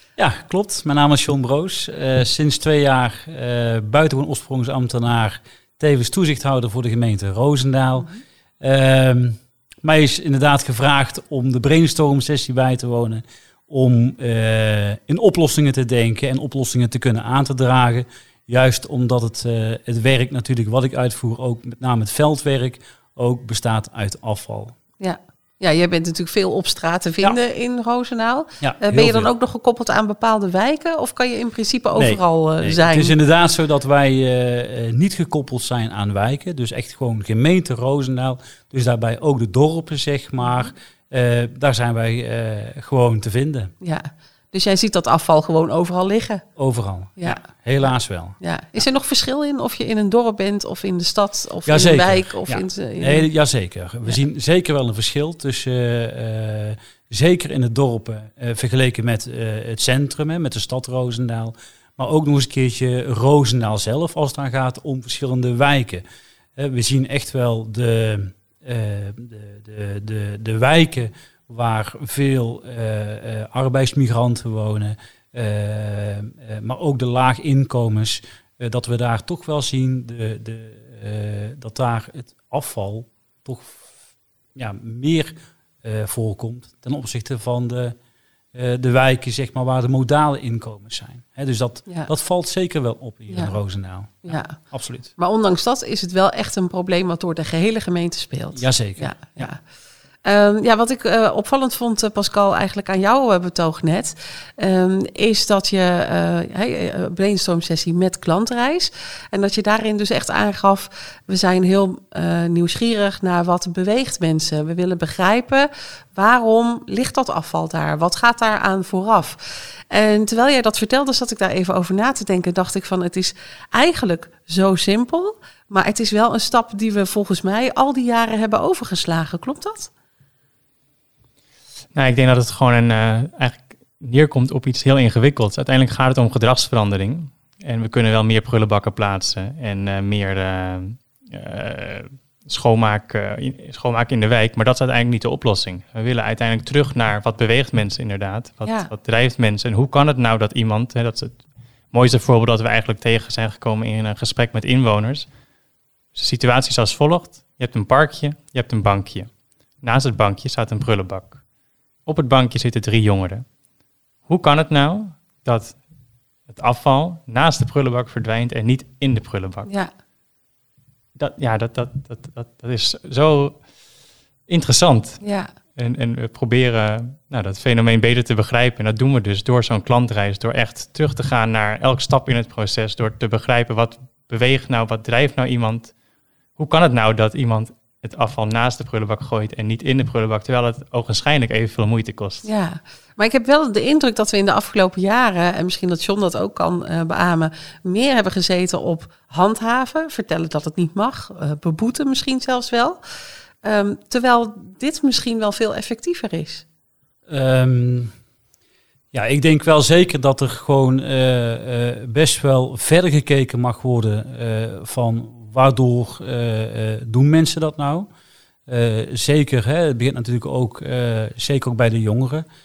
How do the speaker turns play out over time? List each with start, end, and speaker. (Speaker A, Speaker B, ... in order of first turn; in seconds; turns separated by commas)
Speaker A: 0.2-24.8, Speaker B: 25.0-33.1, Speaker A: 28.6-29.3, Speaker A: 31.9-43.7, Speaker B: 43.8-46.5, Speaker A: 46.6-48.4, Speaker B: 48.4-53.3, Speaker A: 51.7-66.0, Speaker A: 66.6-83.8, Speaker A: 84.5-88.0, Speaker A: 88.5-95.1, Speaker B: 93.3-93.6, Speaker B: 94.2-99.6, Speaker A: 98.5-99.5, Speaker B: 100.2-129.9, Speaker C: 131.9-151.4, Speaker C: 151.9-155.3, Speaker C: 156.2-159.3, Speaker C: 159.8-161.4, Speaker C: 162.1-163.4, Speaker C: 164.3-165.8, Speaker C: 166.5-169.7, Speaker C: 171.2-173.6, Speaker C: 174.5-175.2, Speaker B: 175.2-175.5, Speaker C: 175.8-185.9, Speaker C: 186.6-192.5, Speaker B: 192.4-203.0, Speaker B: 203.6-206.6, Speaker A: 207.3-208.1, Speaker A: 209.1-218.1, Speaker A: 218.7-222.4